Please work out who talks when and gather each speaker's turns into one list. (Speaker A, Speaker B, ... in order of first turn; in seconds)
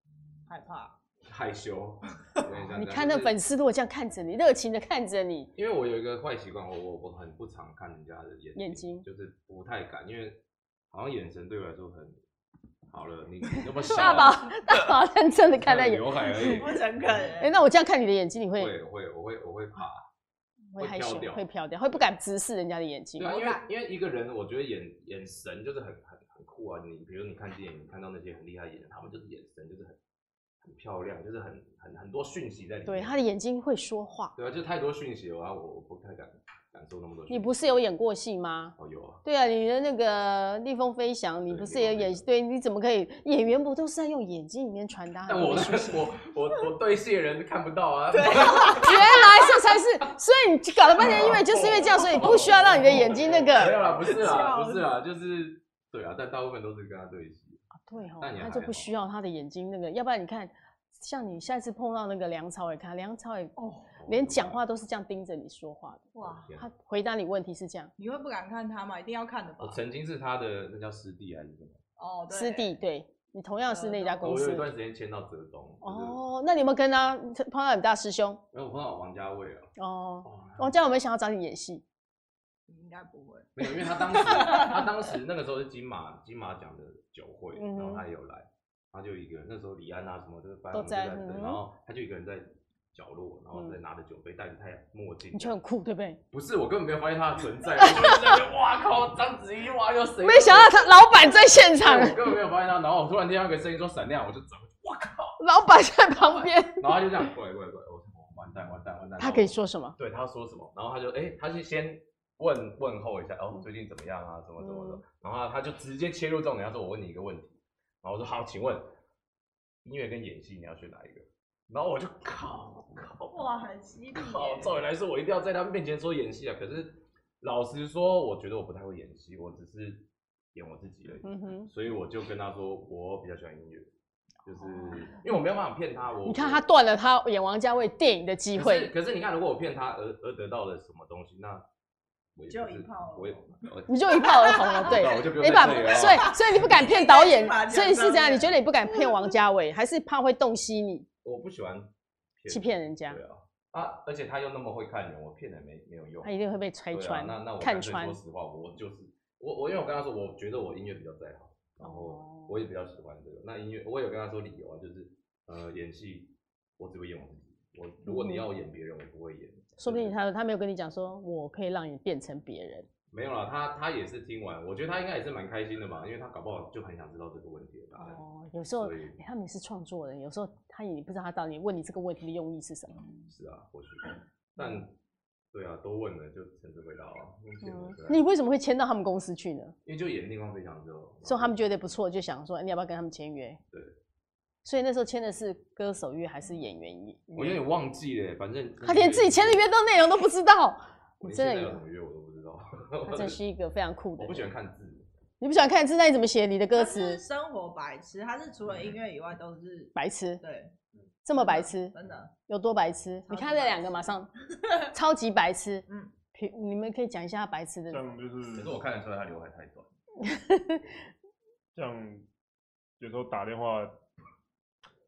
Speaker A: 0.5-0.9, 16.3-17.5, 23.2-23.7, 48.1-49.0, 53.6-54.9, 63.5-63.9, 66.1-66.5, 68.0-69.8, 72.0-72.7, 73.7-74.3, 82.7-84.9, 123.3-124.8, 142.5-143.6, 144.2-149.1, 206.7-210.7, 211.3-212.3, 213.3-214.1
Speaker B: 1.2-3.3, 5.5-10.4, 10.9-12.2, 12.9-14.9, 15.5-17.4, 18.6-20.0, 20.8-21.4, 23.2-30.0, 30.6-33.2, 34.3-37.5, 38.8-39.2, 41.5-42.2, 45.3-49.5, 51.0-57.6, 58.2-58.9, 63.9-64.6, 66.2-66.7, 69.6-71.8, 74.2-76.2, 78.5-79.7, 80.2-80.7, 83.5-95.5, 96.3-105.4, 106.4-118.8, 119.8-123.5, 124.1-133.9, 134.4-136.6, 138.5-141.6, 142.3-146.7, 151.2-156.4, 156.9-170.2, 173.1-178.2, 178.8-179.2, 183.3-184.9, 185.5-188.2, 189.8-191.6, 197.3-199.7, 201.2-203.4, 204.2-205.1, 218.5-219.9
Speaker C: 2.6-5.5, 8.6-9.0, 13.8-16.8, 17.4-18.7, 20.7-23.4, 32.9-34.3, 37.3-46.1, 48.7-53.8, 57.8-63.5, 64.1-67.9, 72.3-74.7, 75.8-78.4, 79.8-81.8, 87.5-88.0, 90.7-91.6, 95.3-96.2, 97.8-98.3, 100.2-102.3, 105.4-107.0, 109.2-110.0, 114.6-115.0, 131.2-131.7, 136.2-138.9, 143.9-151.1, 152.5-153.2, 156.2-158.2, 161.8-162.6, 168.0-168.4, 169.8-172.9, 177.9-183.0, 187.6-189.7, 191.2-193.6, 194.6-197.6, 198.8-201.8, 203.1-204.5, 205.4-207.2, 209.9-210.4, 211.2-211.9, 212.5-214.3, 214.9-218.1, 220.2-220.9
Speaker D: 51.5-53.2, 217.9-218.8, 221.7-222.2, 223.0-223.9